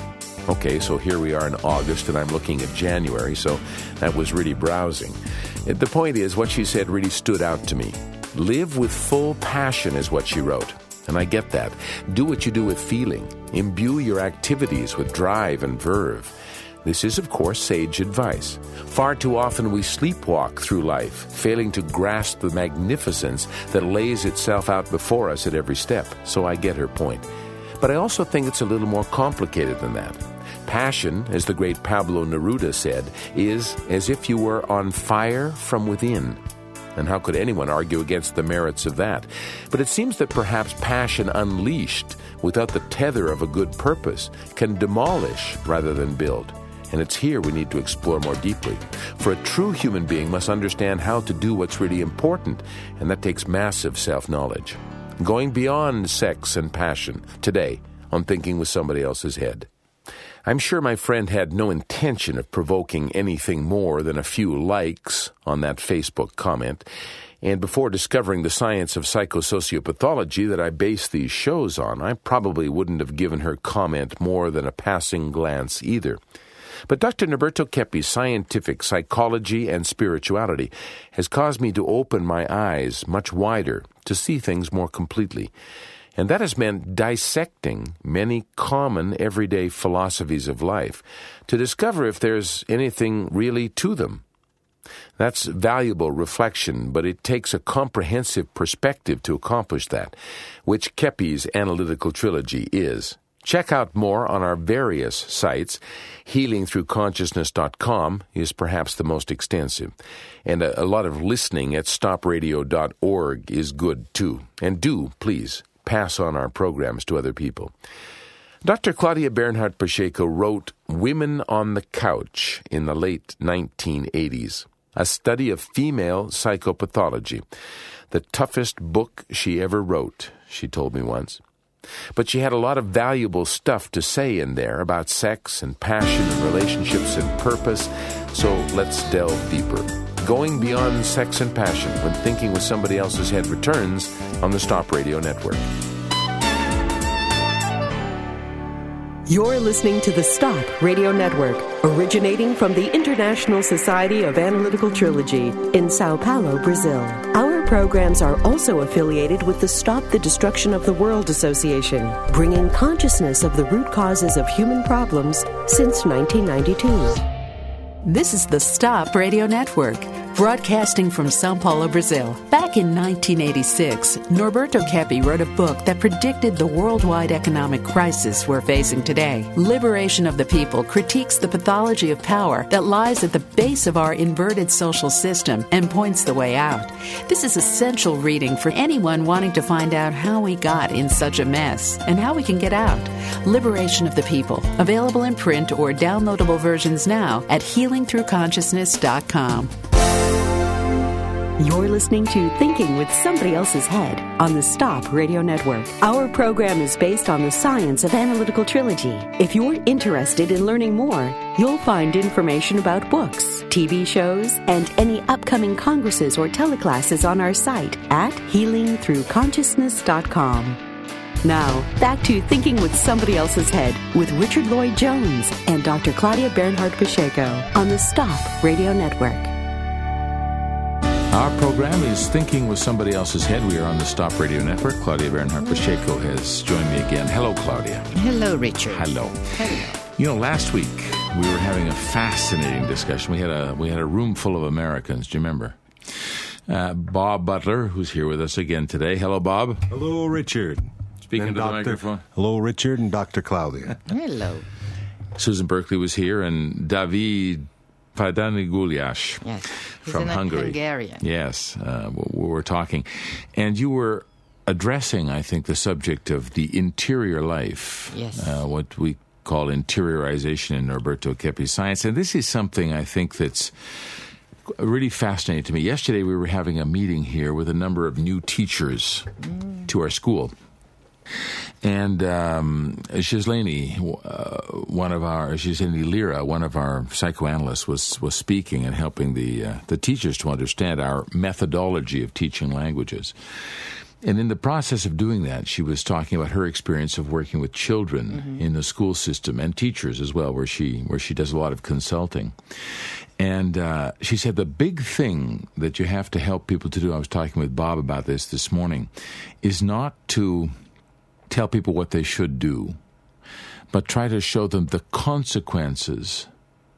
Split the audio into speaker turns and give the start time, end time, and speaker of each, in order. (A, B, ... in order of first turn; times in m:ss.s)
0:00.5-0:27.3 A
0:27.8-0:36.4 A
0:37.0-0:59.7 A
1:00.4-1:06.9 A
1:07.4-1:16.2 A
1:16.9-1:25.5 A
1:26.2-1:34.2 A
1:35.2-1:57.7 A
1:58.6-2:07.4 A
2:08.1-2:11.4 A
2:12.1-2:25.7 A
2:29.3-2:47.2 B
2:48.0-3:19.7 C
3:21.6-3:40.8 B
3:41.4-3:49.5 B
3:51.3-3:58.1 A
3:58.1-4:00.0 D
3:58.9-4:09.9 A
4:09.9-4:14.0 E
4:11.3-4:12.2 A
4:14.1-4:14.7 D
4:15.4-4:19.5 A
4:19.4-4:21.2 D
4:20.0-4:39.3 A
4:28.1-4:28.6 D
4:39.9-4:40.5 A
4:41.8-5:02.6 A
4:58.3-4:58.6 D
5:03.4-5:09.1 A
5:09.6-5:10.7 A
5:11.5-5:13.0 A
5:13.9-5:16.5 A